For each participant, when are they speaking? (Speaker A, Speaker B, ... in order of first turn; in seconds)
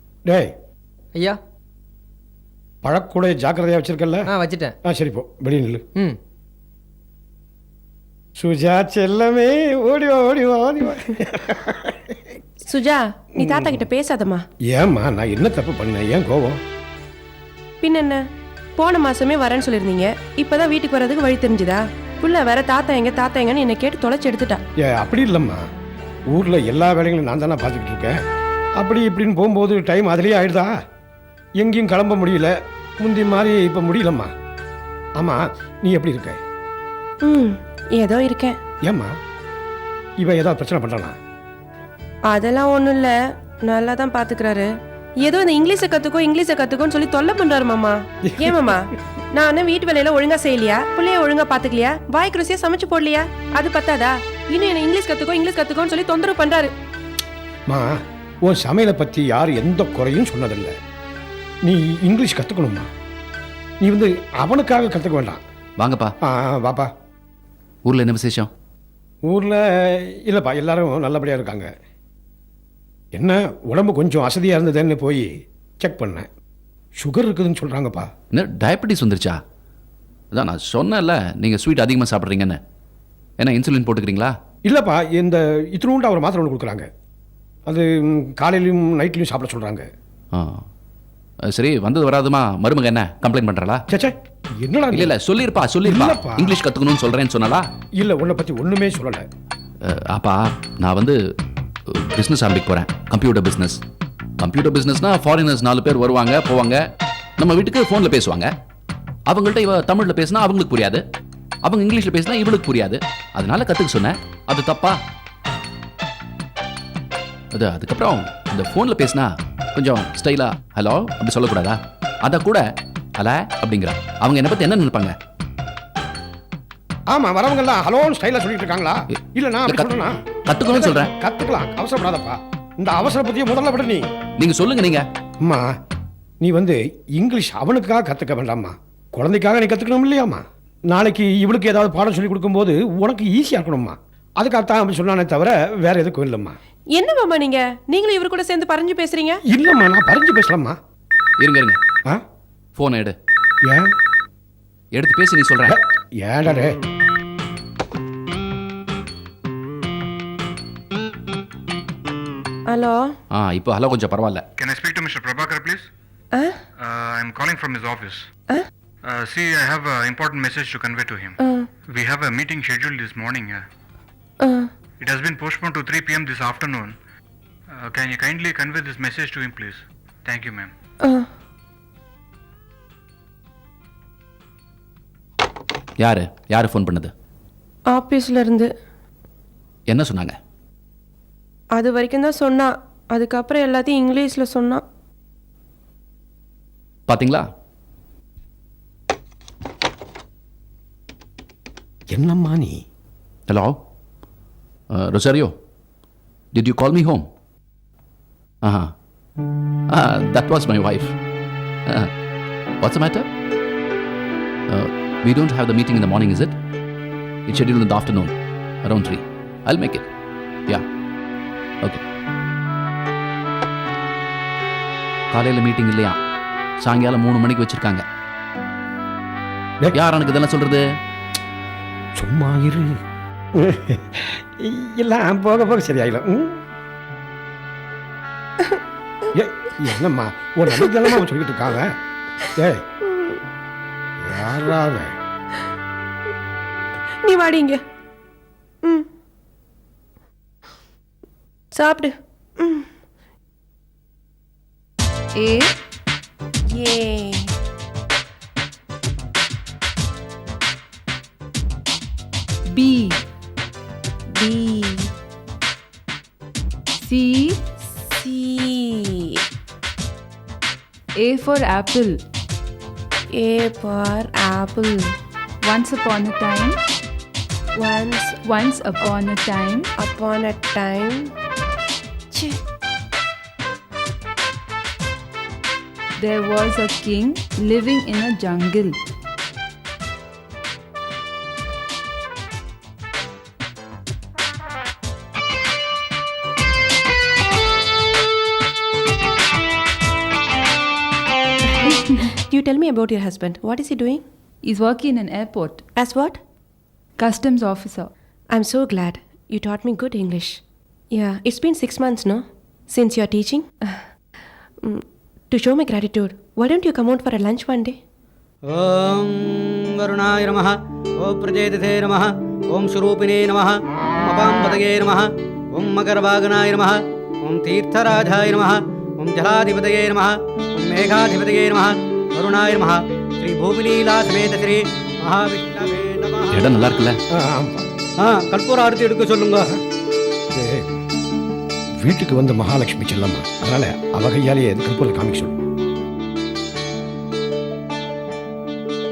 Speaker A: 2.8-4.2, 4.8-5.8, 8.4-12.0, 13.4-13.8, 14.7-16.6, 24.8-25.6, 26.3-28.2, 28.8-30.7, 31.6-34.3, 35.2-36.4, 38.8-39.1, 40.2-41.2, 48.3-48.7, 58.5-60.7, 61.6-62.9, 63.8-65.4, 66.3-66.9, 69.3-71.7, 73.2-75.3, 75.8-76.3, 77.0-78.1, 84.7-86.9, 87.7-89.9, 93.9-95.1, 95.8-96.6, 98.0-99.3, 127.1-130.2, 130.7-134.1, 136.4-146.6, 149.5-150.8, 155.7-156.8, 202.1-202.8, 232.2-233.0, 233.6-236.6, 239.3-241.9, 242.6-242.8, 244.2-245.1, 337.3-337.8, 340.6-340.9, 342.0-345.5
Speaker B: 12.7-14.4, 17.8-18.2, 18.8-24.6, 37.2-38.6, 42.3-43.1, 43.6-44.7, 45.2-56.7, 146.9-149.4, 162.7-163.1, 171.4-171.7, 174.4-174.7, 187.9-188.7, 191.8-194.8, 243.1-243.4, 247.2-247.8, 251.7-252.9, 256.7-257.5, 264.3-265.1, 268.0-269.4, 273.3-275.1, 277.8-278.4, 280.0-281.3, 282.3-282.6, 301.9-304.2, 305.9-306.4, 308.5-310.6, 311.1-314.0, 314.8-318.0
Speaker C: 65.8-66.1, 67.8-68.5, 78.3-79.4, 80.3-82.6, 83.4-84.3, 90.3-90.6, 91.5-93.8, 94.9-97.6, 99.8-101.2, 101.9-103.8, 104.4-106.8, 107.4-108.5, 109.3-111.0, 111.7-115.0, 117.5-122.6, 123.2-125.2, 129.7-129.9, 130.5-131.1, 134.4-135.1, 151.4-151.8, 152.8-153.1, 154.9-155.8, 163.3-164.4, 186.0-187.1, 189.9-190.3, 197.1-197.5, 203.5-203.8, 204.9-205.5, 206.5-207.3, 208.6-208.9, 209.9-211.1, 212.8-213.3, 214.7-216.5, 217.5-220.1, 225.3-226.2, 226.8-228.0, 229.9-230.8, 336.5-337.2
Speaker D: 164.6-165.9, 166.8-168.3, 169.0-171.4, 171.9-173.7, 175.0-177.0, 177.7-180.7
Speaker E: 255.3-255.7, 262.7-263.2, 267.0-267.6, 271.2-272.2, 275.6-276.8, 278.4-279.9, 286.2-289.0, 304.6-305.8, 307.2-308.1
Speaker F: 318.7-336.8, 338.2-339.8